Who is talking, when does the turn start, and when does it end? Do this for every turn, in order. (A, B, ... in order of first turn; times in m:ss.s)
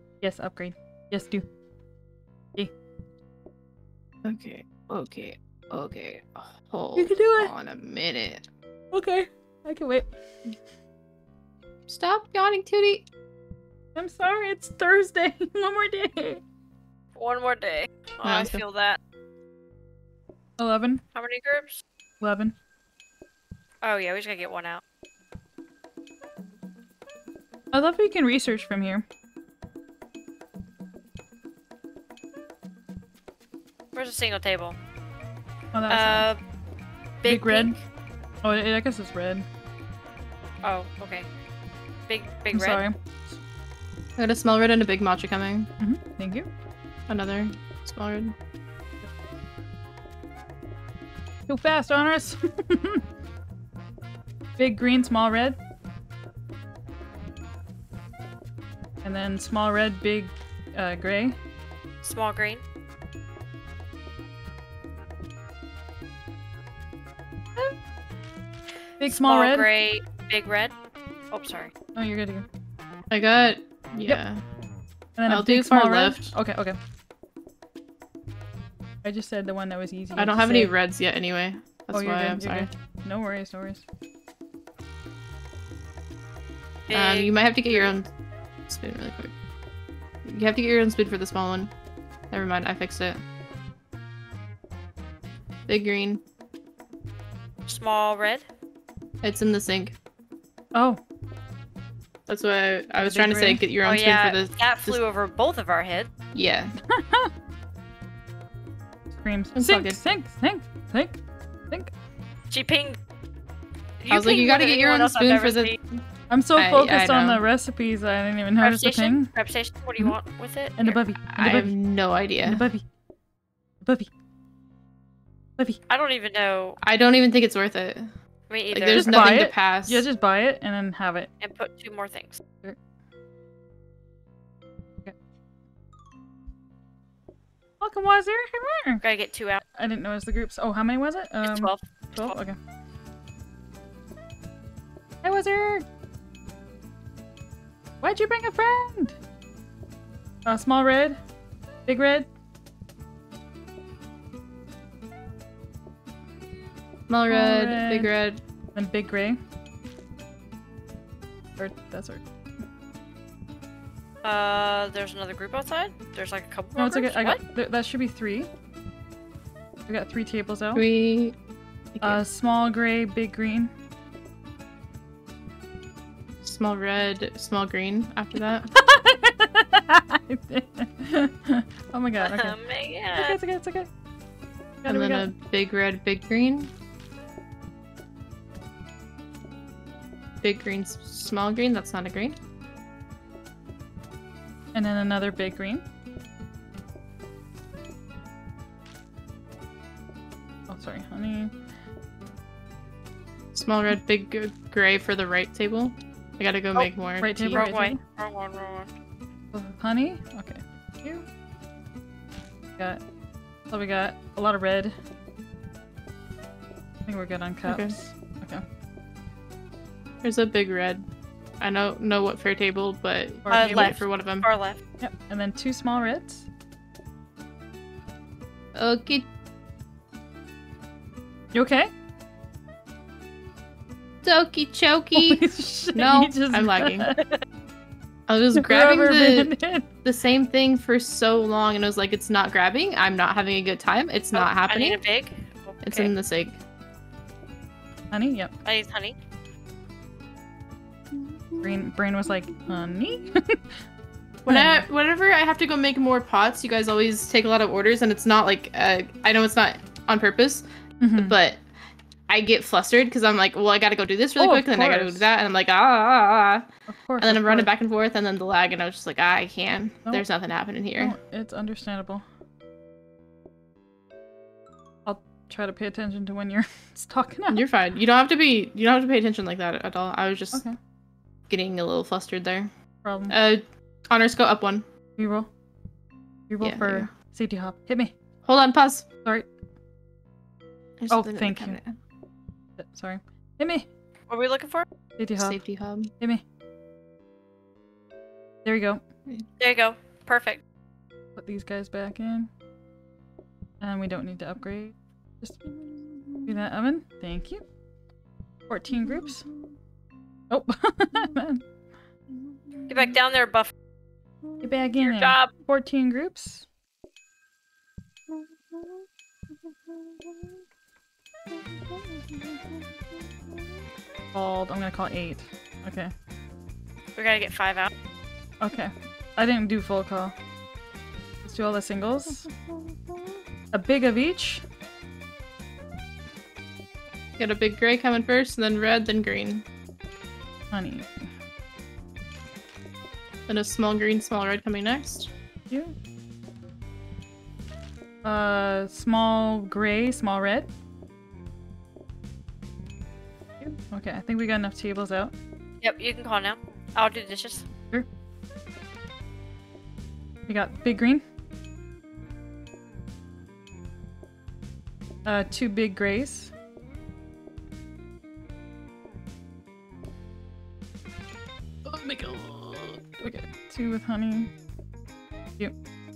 0:00.2-0:01.4 A
0:04.2-0:08.5 B
0:07.0-0:07.5 A
0:08.9-0:10.1 A
0:11.9-0:13.1 B
0:13.9-0:16.4 A
0:17.2-0:19.0 C
0:18.2-0:18.6 B
0:20.6-0:21.0 A
0:21.1-0:21.8 C
0:22.2-0:22.5 A
0:23.8-0:24.8 C
0:27.7-0:29.0 A
0:33.9-0:34.8 C
0:35.7-0:36.3 A
0:35.9-0:36.4 C
0:37.2-0:37.8 C
0:37.2-0:37.8 A
0:38.4-0:39.4 A
0:40.6-0:41.3 C
0:42.1-0:42.8 C
0:42.5-0:43.0 A
0:44.2-0:45.7 B
0:45.8-0:46.5 A
0:47.1-0:48.3 B
0:51.5-0:53.0 A
0:54.6-0:55.6 A
0:59.0-1:01.4 A
1:02.0-1:02.6 C
1:09.0-1:09.7 A
1:09.0-1:10.7 C
1:11.3-1:11.7 C
1:11.9-1:12.5 A
1:13.1-1:14.4 B
1:15.2-1:16.8 A
1:15.3-1:16.3 B
1:19.0-1:20.7 A
1:20.2-1:22.7 B
1:21.9-1:23.8 A
1:26.9-1:27.9 C
1:26.9-1:28.1 B
1:28.7-1:29.3 B
1:30.2-1:31.7 B
1:32.3-1:33.2 B
1:35.7-1:36.2 B
1:37.6-1:38.4 C
1:39.2-1:40.0 B
1:40.7-1:41.0 A
1:42.3-1:45.0 B
1:43.0-1:43.6 A
1:43.8-1:46.1 C
1:46.3-1:46.7 B
1:46.8-1:47.3 A
1:49.1-1:51.2 A
1:49.5-1:50.0 B
1:52.5-1:53.0 C
1:54.0-1:55.8 C
1:54.1-1:55.8 B
1:56.3-1:59.3 A
1:56.6-1:57.4 B
1:58.6-2:01.0 C
2:00.8-2:01.7 A
2:01.3-2:02.6 B
2:02.4-2:02.8 A
2:03.8-2:04.1 A
2:05.9-2:06.8 C
2:06.8-2:08.1 B
2:08.5-2:09.4 C
2:08.7-2:10.0 B
2:08.9-2:11.3 A
2:11.4-2:12.4 C
2:17.8-2:19.0 A
2:19.0-2:19.6 C
2:19.7-2:22.6 A
2:21.4-2:22.4 C
2:25.2-2:25.8 A
2:28.0-2:29.2 A
2:30.4-2:31.2 A
2:31.9-2:32.3 A
2:37.1-2:38.4 B
2:37.3-2:38.1 A
2:38.7-2:39.4 A
2:41.6-2:42.2 A
2:44.2-2:47.4 C
2:46.8-2:48.5 A
2:49.9-2:50.8 A
2:50.7-2:51.4 B
2:51.9-2:52.2 B
2:52.0-2:53.7 A
2:56.4-2:58.7 B
2:58.7-3:02.6 A
3:02.2-3:03.4 C
3:03.1-3:03.9 A
3:04.8-3:05.3 A
3:04.8-3:06.7 B
3:10.4-3:12.4 B
3:14.7-3:15.8 A
3:20.7-3:21.5 A
3:23.5-3:27.6 B
3:27.2-3:28.0 A
3:27.4-3:28.9 C
3:29.5-3:31.2 A
3:33.7-3:34.9 A
3:37.0-3:38.6 A
3:37.6-3:38.0 B
3:40.2-3:41.0 B
3:41.6-3:44.4 B
3:43.4-3:44.0 A
3:43.5-3:44.8 C
3:45.0-3:46.5 A
3:48.7-3:49.3 B
3:51.5-3:51.9 A
3:54.2-3:57.1 B
3:55.1-3:57.2 A
3:58.3-3:59.5 B
3:58.5-3:59.9 A
4:00.0-4:05.0 B
4:04.3-4:06.1 C
4:05.8-4:06.6 B
4:08.1-4:08.5 A
4:08.6-4:09.2 C
4:11.1-4:11.7 B
4:11.6-4:13.8 A
4:14.4-4:21.6 B
4:14.5-4:14.8 A
4:21.0-4:21.4 A
4:22.3-4:26.7 B
4:24.4-4:25.3 A
4:26.9-4:27.7 A
4:27.2-4:31.2 B
4:31.0-4:32.2 A
4:35.0-4:37.6 A
4:37.5-4:40.6 B
4:41.5-4:42.7 B
4:43.0-4:43.3 A
4:43.3-4:44.8 B
4:45.2-4:45.5 A
4:46.5-4:48.1 A
4:46.6-4:47.1 B
4:48.4-4:49.0 B
4:51.0-4:52.0 B
4:51.1-4:51.8 A
4:52.8-4:53.9 A
4:54.3-4:54.9 C
4:55.2-4:55.6 A
4:55.4-4:56.1 B
4:58.6-4:59.0 A
4:59.6-5:00.6 C
5:01.4-5:02.5 A
5:03.8-5:05.6 A
5:05.8-5:06.5 B
5:06.4-5:07.6 A
5:08.7-5:09.4 A
5:08.9-5:09.4 B
5:10.5-5:11.6 A
5:12.6-5:12.9 B
5:12.9-5:13.7 C
5:14.6-5:16.7 A
5:15.0-5:15.5 C
5:24.3-5:26.1 A
5:27.2-5:27.9 C
5:28.6-5:30.3 A
5:31.4-5:32.5 A
5:33.7-5:34.6 A
5:37.4-5:39.6 B
5:40.7-5:41.3 A
5:43.5-5:45.3 B
5:45.7-5:46.0 A
5:48.2-5:50.7 A
5:53.6-5:55.3 A
5:55.8-5:57.7 C
6:00.5-6:01.2 A
6:05.2-6:06.5 A
6:11.8-6:14.5 A